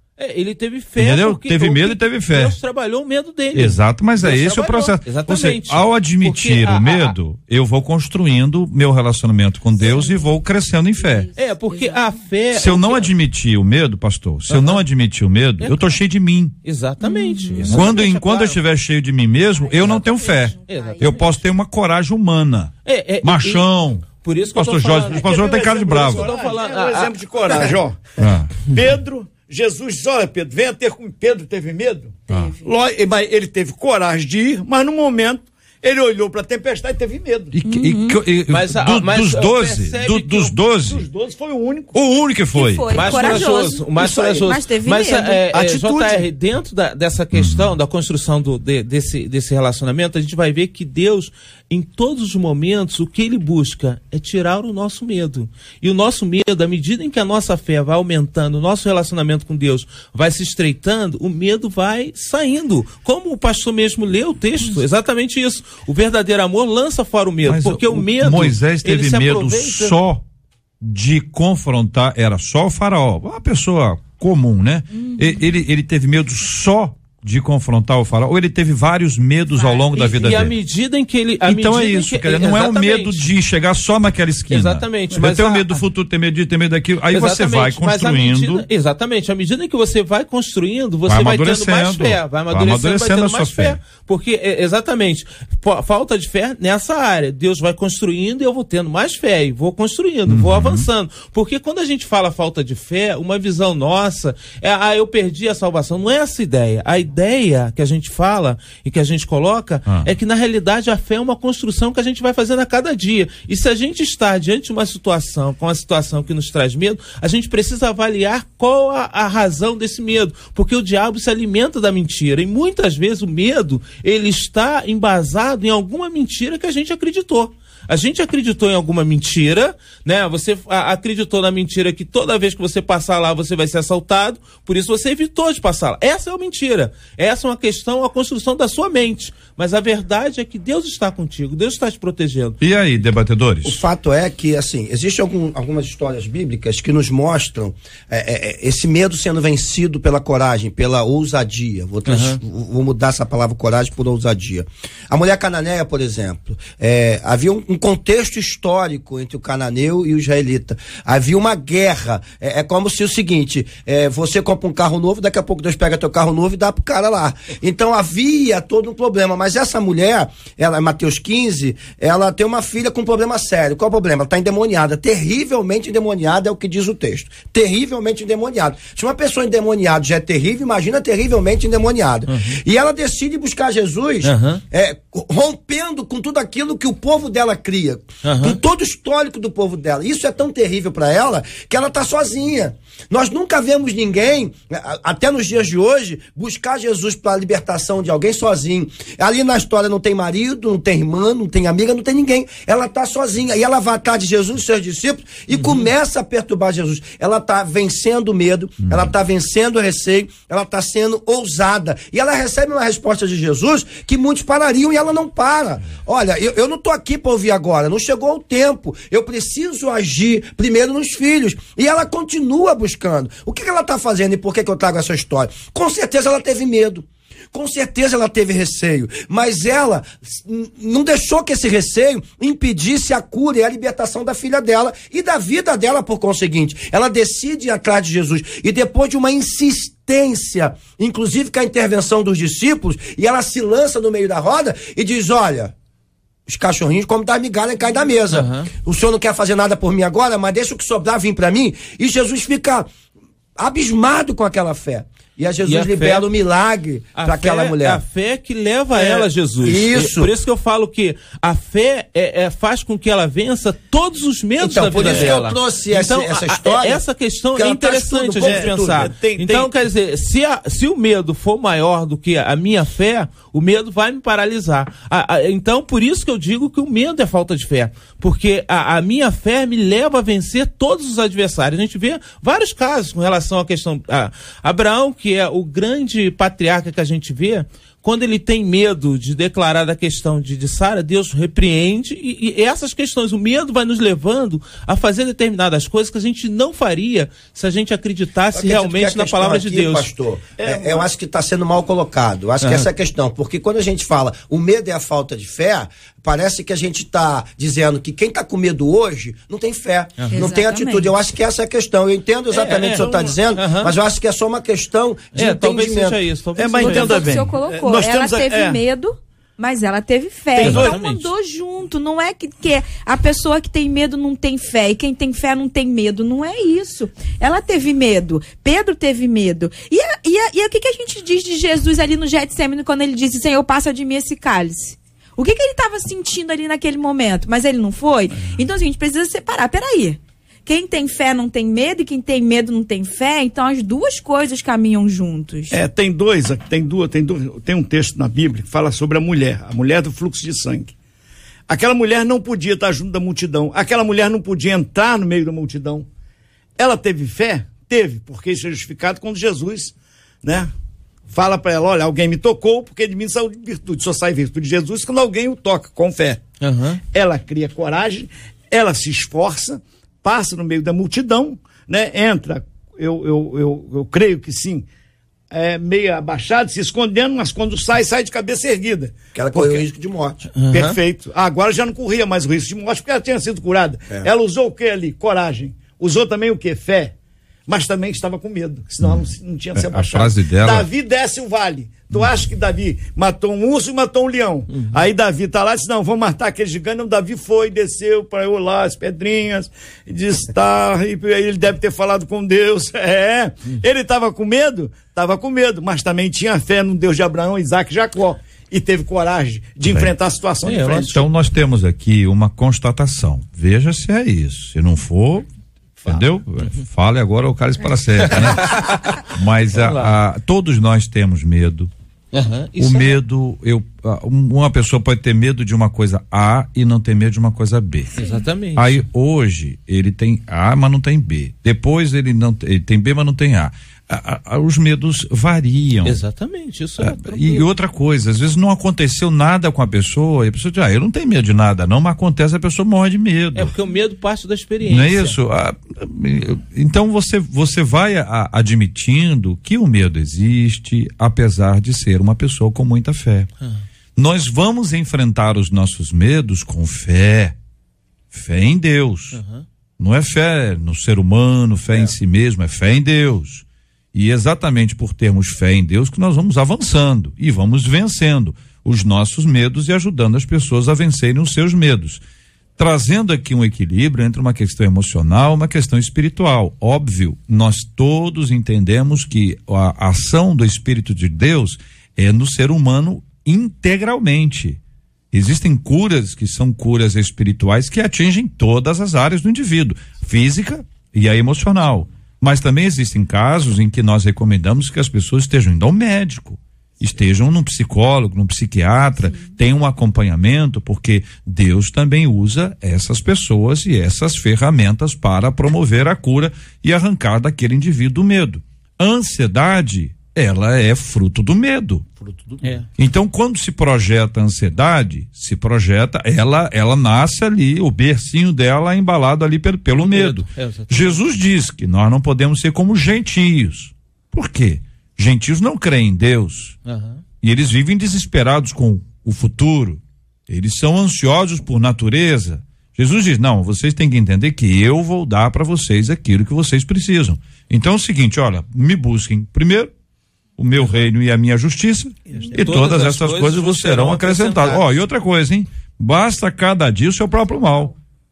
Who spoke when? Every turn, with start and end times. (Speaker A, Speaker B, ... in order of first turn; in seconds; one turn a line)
Speaker A: 0.2-7.1
Speaker B: 1.0-2.5
Speaker B: 3.5-11.3
Speaker C: 9.8-10.3
Speaker C: 11.1-12.1
Speaker A: 11.3-13.1
Speaker B: 12.5-16.6
Speaker A: 14.5-14.8
Speaker A: 15.6-16.0
Speaker A: 16.6-18.6
Speaker C: 17.0-18.0
Speaker B: 17.5-22.7
Speaker C: 19.6-21.4
Speaker A: 20.7-21.4
Speaker A: 22.9-23.7
Speaker B: 23.2-26.3
Speaker A: 24.2-27.7
Speaker D: 25.1-37.5
Speaker B: 28.2-28.7
Speaker C: 32.3-32.7
Speaker B: 37.5-41.1
Speaker C: 37.6-38.2
Speaker A: 38.5-40.5
Speaker D: 40.8-41.9
Speaker B: 41.9-43.4
Speaker C: 42.5-45.4
Speaker A: 42.9-70.0
Speaker D: 45.5-46.3
Speaker B: 47.3-47.7
Speaker B: 67.5-70.2
Speaker B: 70.8-80.5
Speaker C: 79.6-79.9
Speaker A: 79.9-83.2
Speaker B: 81.5-88.7
Speaker A: 84.5-85.8
Speaker A: 87.1-142.6
Speaker B: 91.1-93.8
Speaker B: 100.3-100.9
Speaker B: 142.6-143.8
Speaker E: 143.7-245.7
Speaker A: 152.1-152.4
Speaker A: 184.2-184.6
Speaker A: 188.2-188.6
Speaker A: 205.5-205.9
Speaker B: 208.8-209.1
Speaker E: 246.5-252.9
Speaker A: 248.3-248.7
Speaker E: 253.6-258.0
Speaker A: 255.6-256.3
Speaker A: 257.1-300.1
Speaker E: 258.9-260.3
Speaker E: 264.6-267.0
Speaker E: 267.5-269.1
Speaker D: 268.4-269.7
Speaker E: 298.5-316.2
Speaker D: 300.6-301.1
Speaker A: 302.6-302.9
Speaker A: 310.2-310.4
Speaker C: 310.3-311.1
Speaker A: 312.5-313.9
Speaker A: 315.4-317.5
Speaker D: 316.6-318.8
Speaker C: 316.8-345.8
Speaker A: 320.6-321.3
Speaker D: 320.6-321.0
Speaker D: 345.7-350.9
Speaker D: 351.7-356.1
Speaker D: 356.8-360.7
Speaker D: 361.3-366.4
Speaker A: 366.6-367.0
Speaker D: 367.1-374.9
Speaker D: 375.5-379.8
Speaker E: 379.4-380.5
Speaker A: 380.6-381.0
Speaker D: 380.7-387.1
Speaker D: 387.7-411.2
Speaker B: 389.0-390.9
Speaker B: 409.9-410.1
Speaker A: 410.6-411.1
Speaker B: 411.0-415.5
Speaker B: 416.0-421.9
Speaker A: 418.2-419.0
Speaker A: 419.7-420.2
Speaker A: 422.3-423.2
Speaker B: 422.8-428.2
Speaker A: 428.2-429.0
Speaker B: 428.8-436.2
Speaker A: 436.1-437.7
Speaker B: 437.0-443.7
Speaker A: 443.6-445.4
Speaker B: 444.9-453.5
Speaker B: 454.2-457.6
Speaker B: 458.3-459.4
Speaker A: 459.3-459.6
Speaker B: 460.0-472.2
Speaker B: 472.8-484.8
Speaker B: 485.3-512.1
Speaker D: 512.2-512.8
Speaker B: 513.0-526.8
Speaker A: 520.0-521.2
Speaker A: 526.9-527.2
Speaker B: 527.4-539.9
Speaker B: 540.6-547.9
Speaker A: 542.4-545.0